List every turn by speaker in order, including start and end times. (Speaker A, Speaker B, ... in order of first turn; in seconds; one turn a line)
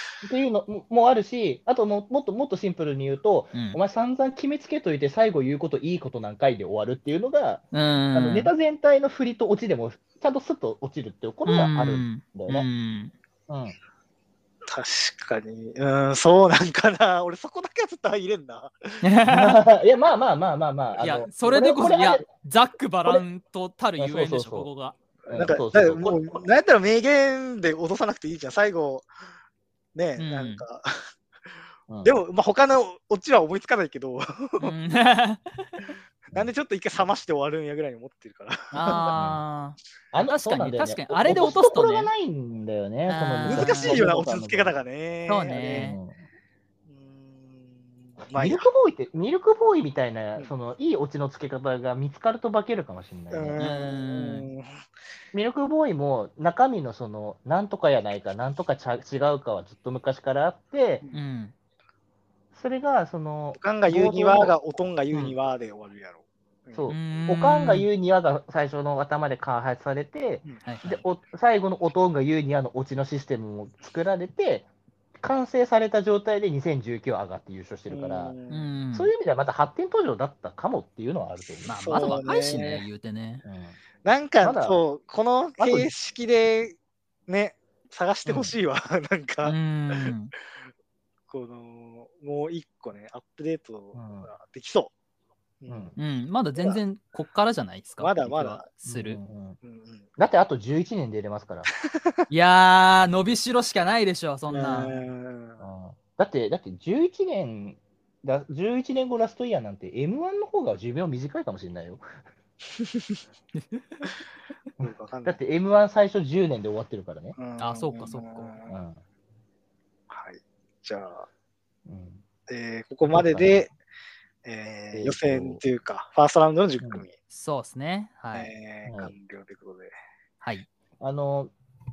Speaker A: 0.2-12.7
Speaker B: 7.7-8.5
Speaker B: 11.4-13.1
Speaker A: 13.5-13.7
Speaker C: 14.7-19.1
Speaker B: 19.0-19.6
Speaker A: 19.3-22.3
Speaker B: 21.0-25.0
Speaker A: 24.0-24.7
Speaker A: 25.2-26.2
Speaker C: 25.3-29.1
Speaker C: 29.9-31.1
Speaker B: 30.2-30.6
Speaker C: 32.0-34.8
Speaker B: 34.6-35.9
Speaker C: 36.3-39.1
Speaker B: 38.7-42.1
Speaker A: 39.1-39.4
Speaker A: 40.1-44.7
Speaker B: 43.1-44.0
Speaker C: 43.5-45.9
Speaker B: 45.3-46.0
Speaker A: 45.7-46.2
Speaker C: 46.9-48.7
Speaker A: 48.3-53.6
Speaker C: 53.3-54.8
Speaker B: 53.6-54.5
Speaker A: 55.3-61.0
Speaker B: 61.1-61.5
Speaker A: 62.5-64.5
Speaker C: 63.6-67.0
Speaker A: 66.7-74.7
Speaker B: 66.9-67.9
Speaker B: 70.6-71.0
Speaker A: 75.2-78.3
Speaker C: 77.9-78.6
Speaker B: 78.5-79.1
Speaker A: 78.9-82.2
Speaker B: 81.6-83.4
Speaker C: 81.8-82.8
Speaker A: 83.4-83.8
Speaker C: 84.0-90.1
Speaker A: 84.4-84.8
Speaker A: 85.6-85.9
Speaker A: 88.2-88.5
Speaker B: 89.4-90.3
Speaker C: 91.3-94.9
Speaker A: 93.9-94.3
Speaker C: 95.6-95.9
Speaker A: 95.7-96.0
Speaker B: 96.0-99.2
Speaker C: 98.0-98.7
Speaker A: 98.8-99.6
Speaker C: 99.6-100.1
Speaker A: 100.2-101.7
Speaker B: 102.3-105.0
Speaker C: 104.5-105.6
Speaker A: 105.6-112.0
Speaker C: 112.7-113.2
Speaker B: 113.5-114.0
Speaker C: 114.8-115.4
Speaker A: 114.8-117.3
Speaker C: 117.3-118.8
Speaker B: 117.6-118.5
Speaker A: 118.7-119.0
Speaker C: 120.1-121.3
Speaker A: 121.9-122.2
Speaker C: 122.5-123.7
Speaker A: 123.1-123.7
Speaker C: 124.4-127.1
Speaker A: 124.9-125.6
Speaker B: 127.3-128.5
Speaker C: 128.3-129.9
Speaker A: 128.9-129.1
Speaker B: 130.4-130.7
Speaker A: 131.0-131.5